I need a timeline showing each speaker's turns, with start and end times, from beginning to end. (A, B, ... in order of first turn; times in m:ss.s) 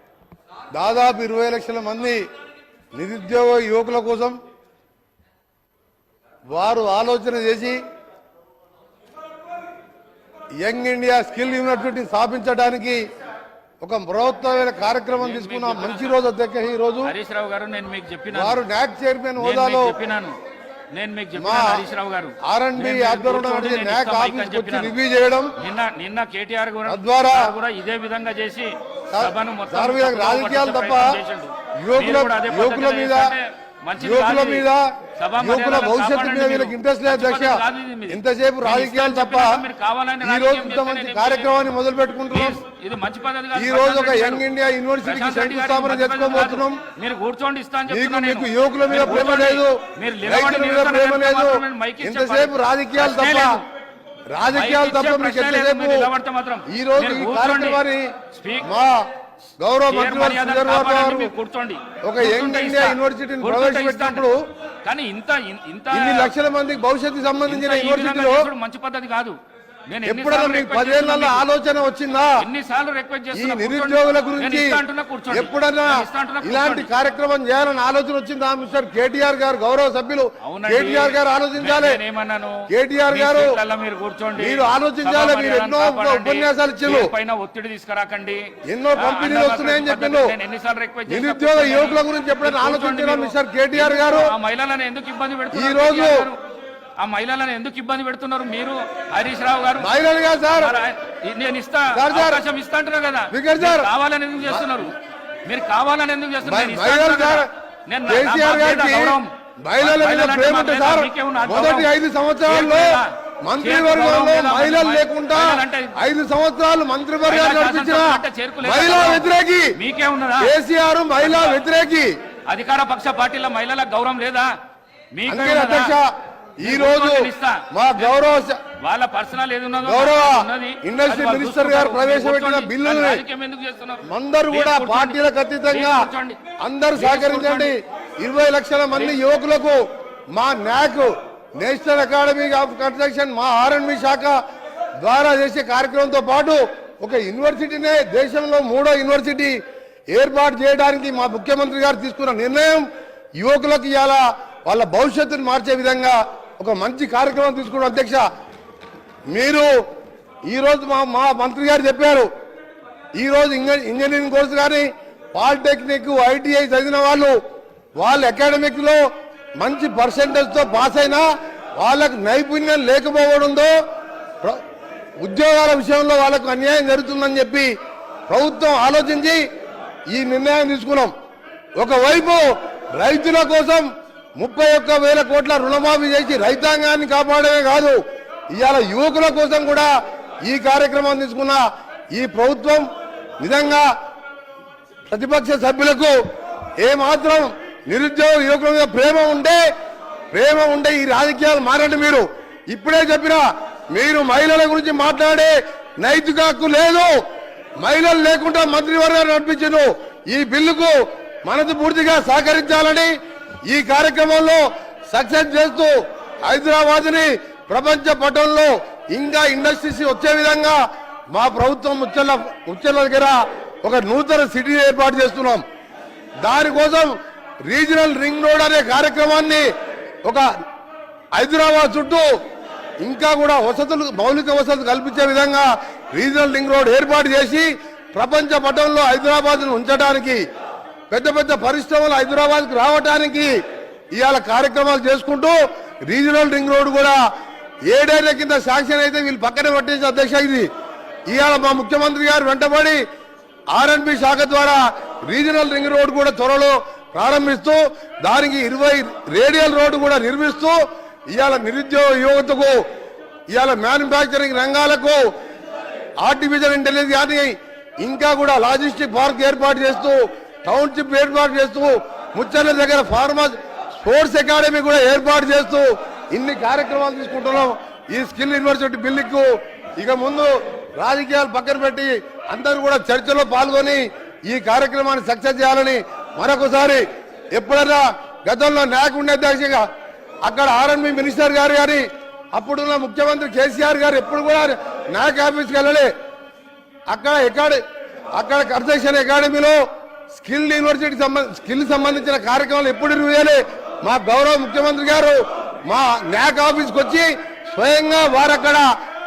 0:00.7-0:02.2 A
0:02.9-0:04.4 A
0:06.5-0:07.8 A
0:10.6-0:13.0 A
0:13.8-0:17.1 A
0:15.2-0:16.2 B
0:17.0-0:18.6 B
0:18.3-0:19.9 A
0:19.4-0:20.3 B
0:20.9-0:24.9 B
0:21.4-0:21.8 A
0:22.4-0:25.5 A
0:25.6-0:41.6 B
0:26.9-0:27.5 A
0:29.1-0:31.2 A
0:31.8-0:33.4 A
0:34.0-0:39.6 A
0:40.2-0:42.6 A
0:42.3-0:44.4 B
0:43.5-0:46.8 A
0:45.0-0:53.6 B
0:47.9-0:53.5 A
0:54.3-0:56.1 A
0:54.5-0:58.6 B
0:56.7-0:59.0 A
0:59.6-1:01.3 A
0:59.9-1:04.2 B
1:02.0-1:04.4 A
1:04.8-1:06.3 B
1:05.9-1:08.5 A
1:07.4-1:09.4 B
1:09.9-1:11.4 B
1:10.0-1:12.3 A
1:12.4-1:16.9 B
1:13.3-1:22.0 A
1:20.4-1:36.4 B
1:22.7-1:23.5 A
1:24.4-1:27.1 A
1:28.7-1:30.3 A
1:31.1-1:34.3 A
1:35.5-1:36.3 A
1:37.0-1:39.9 B
1:39.8-1:40.8 A
1:40.6-1:51.9 B
1:41.9-1:42.4 A
1:43.3-1:43.9 A
1:46.4-1:47.5 A
1:48.1-1:59.7 A
1:52.4-1:56.0 B
1:57.2-2:00.5 B
2:00.4-2:02.1 A
2:01.2-2:01.6 B
2:02.5-2:04.5 B
2:05.1-2:05.9 B
2:05.3-2:06.1 A
2:06.6-2:08.2 B
2:06.6-2:08.6 A
2:08.8-2:15.2 B
2:09.8-2:13.2 A
2:14.0-2:16.1 A
2:15.7-2:16.4 B
2:16.6-2:19.8 A
2:17.0-2:17.7 B
2:20.3-2:24.4 A
2:25.0-2:29.6 A
2:30.1-2:32.9 A
2:33.4-2:38.2 A
2:39.3-2:39.7 A
2:40.5-2:42.3 A
2:43.2-2:47.3 A
2:48.0-2:49.0 A
2:49.6-2:51.2 A
2:51.8-2:53.7 A
2:55.2-2:57.7 A
2:58.3-2:59.4 A
3:00.1-3:01.1 A
3:01.8-3:03.8 A
3:04.4-3:08.0 A
3:08.5-3:09.9 A
3:10.4-3:11.6 A
3:12.1-3:12.8 A
3:13.4-3:13.9 A
3:15.1-3:16.2 A
3:16.8-3:19.6 A
3:20.3-3:27.1 A
3:27.8-3:33.1 A
3:33.7-3:35.9 A
3:36.5-3:40.8 A
3:41.3-3:45.6 A
3:46.4-3:47.1 A
3:47.6-3:49.7 A
3:51.3-3:52.2 A
3:53.0-4:00.4 A
4:01.1-4:03.5 A
4:04.1-4:07.2 A
4:07.9-4:10.7 A
4:11.3-4:13.0 A
4:13.7-4:20.8 A
4:21.3-4:22.8 A
4:23.5-4:25.2 A
4:26.2-4:47.0 A
4:47.5-4:49.8 A
4:50.4-4:56.1 A
4:57.1-4:57.8 A
4:58.4-4:59.8 A
5:00.3-5:08.9 A